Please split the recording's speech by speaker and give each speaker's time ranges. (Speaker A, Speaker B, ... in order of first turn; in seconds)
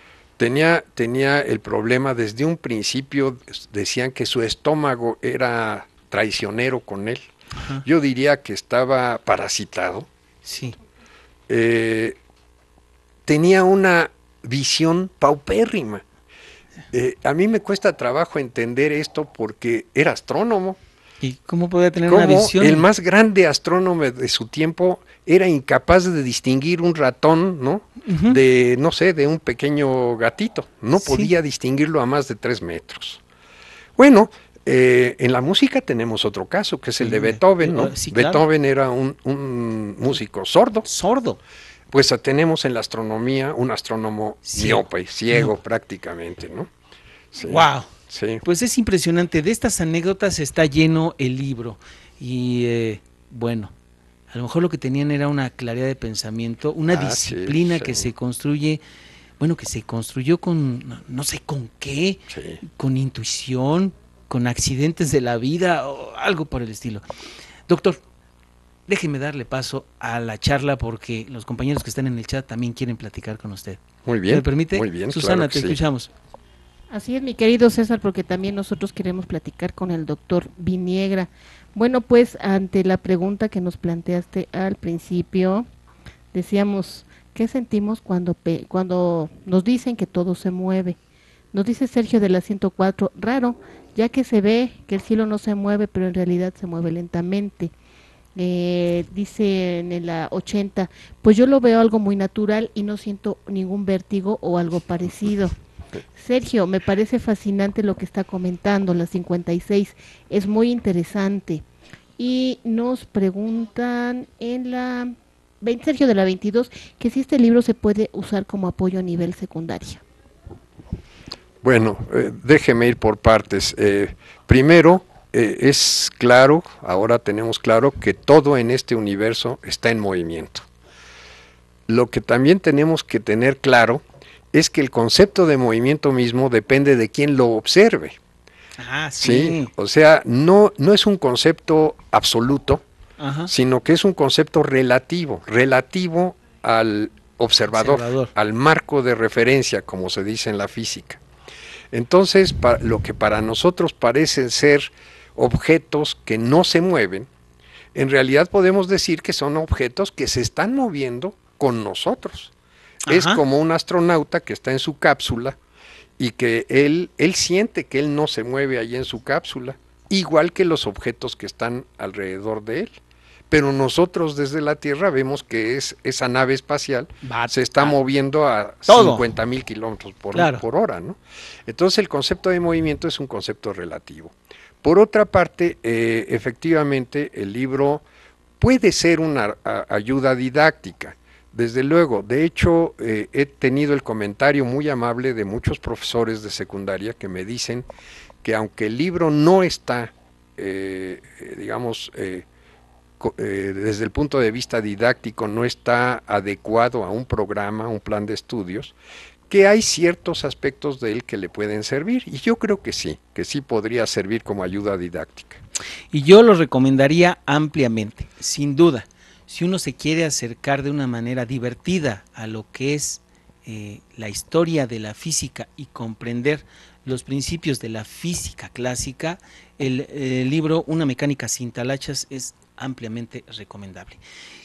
Speaker A: 0.4-7.3, 7.8-10.1, 11.5-12.2, 13.3-16.0, 16.9-20.8, 22.0-33.2, 34.0-40.9, 41.9-46.7, 47.3-48.4, 56.9-58.1, 62.3-62.6, 74.0-75.8, 121.6-130.7, 131.9-138.2, 139.2-142.8, 143.5-151.2, 151.9-157.3, 157.9-162.5, 163.1-165.6, 166.2-188.1, 188.6-197.9, 198.4-202.5, 203.2-208.9, 209.5-215.6
Speaker B: 7.5-7.8, 10.4-10.8, 21.2-22.9, 28.1-28.4, 31.0-31.3, 37.0-38.5, 40.9-41.4, 44.5-45.5, 47.4-47.9, 48.4-53.7, 54.3-58.8, 59.4-67.0, 67.7-68.0, 68.9-76.1, 138.8-139.7, 143.2-143.5, 147.7-148.3, 163.1-163.4, 177.2-177.9, 178.9-179.3, 180.3-180.6, 216.1-234.2
Speaker C: 76.9-85.7, 86.3-91.0, 91.5-97.7, 98.4-105.6, 106.2-111.6, 112.2-120.0